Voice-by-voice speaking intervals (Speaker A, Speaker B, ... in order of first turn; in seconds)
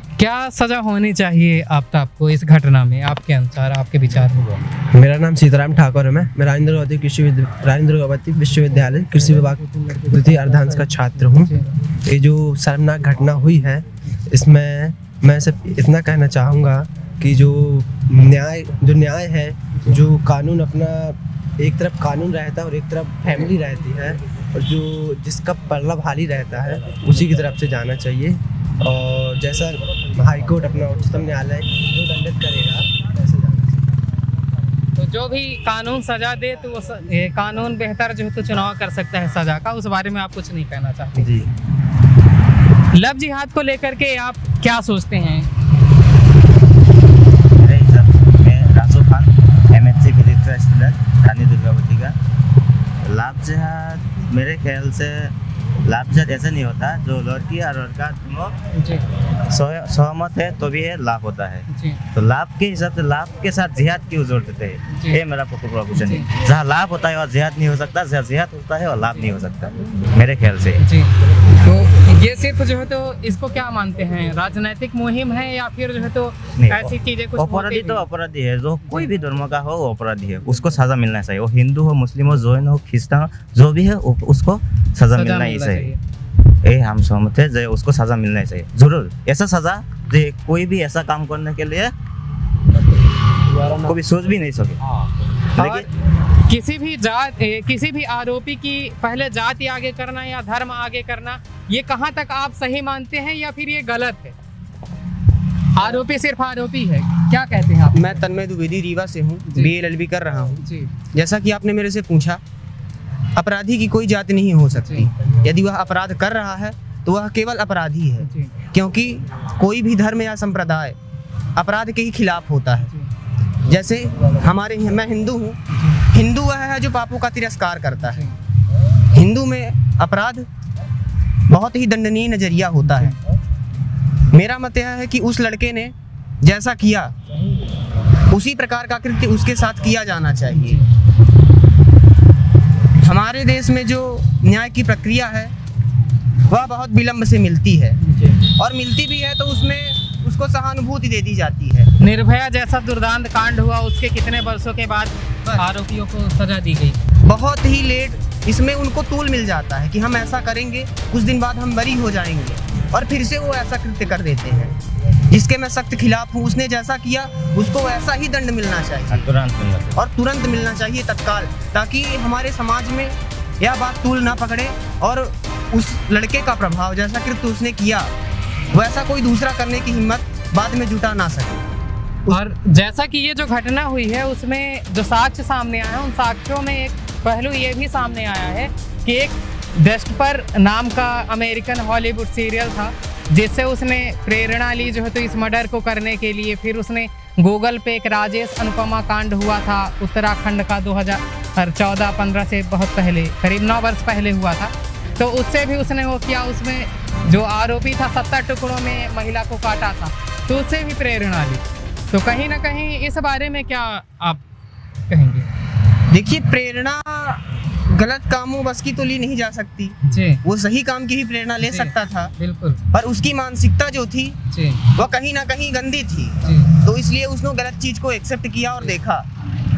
Speaker A: 0.2-4.6, 11.2-11.7, 19.7-20.0, 35.0-41.4, 42.9-45.5, 58.8-59.0, 61.7-62.0, 64.9-65.2, 66.0-66.3, 70.8-78.1, 78.8-79.1, 85.1-86.0, 95.6-104.4, 105.8-108.2, 109.5-109.7, 110.6-110.9, 114.7-115.1, 118.2-118.6, 125.7-126.1, 128.0-128.3, 132.9-133.2, 140.5-140.9, 148.0-148.4, 152.0-157.1, 182.3-214.4, 215.1-215.5, 220.0-220.4, 221.6-222.8, 224.5-224.9, 226.4-226.7
Speaker B: 4.9-11.5, 12.0-33.8
Speaker C: 41.2-41.5, 47.6-52.1, 53.0-55.3, 55.9-58.5, 59.5-70.8, 76.6-85.9, 86.6-91.9, 93.8-94.8, 95.5-95.9, 169.1-170.0
Speaker D: 107.9-110.6, 111.1-112.4, 113.4-121.0, 121.6-122.9, 123.7-125.6, 126.1-128.2, 129.1-130.5, 131.5-133.2, 134.3-137.2, 138.3-140.8, 143.0-145.5, 146.5-148.0, 148.6-151.9, 157.2-164.8, 165.3-169.3, 169.9-178.1, 178.7-181.6, 216.1-222.3, 222.9-224.4, 224.9-229.3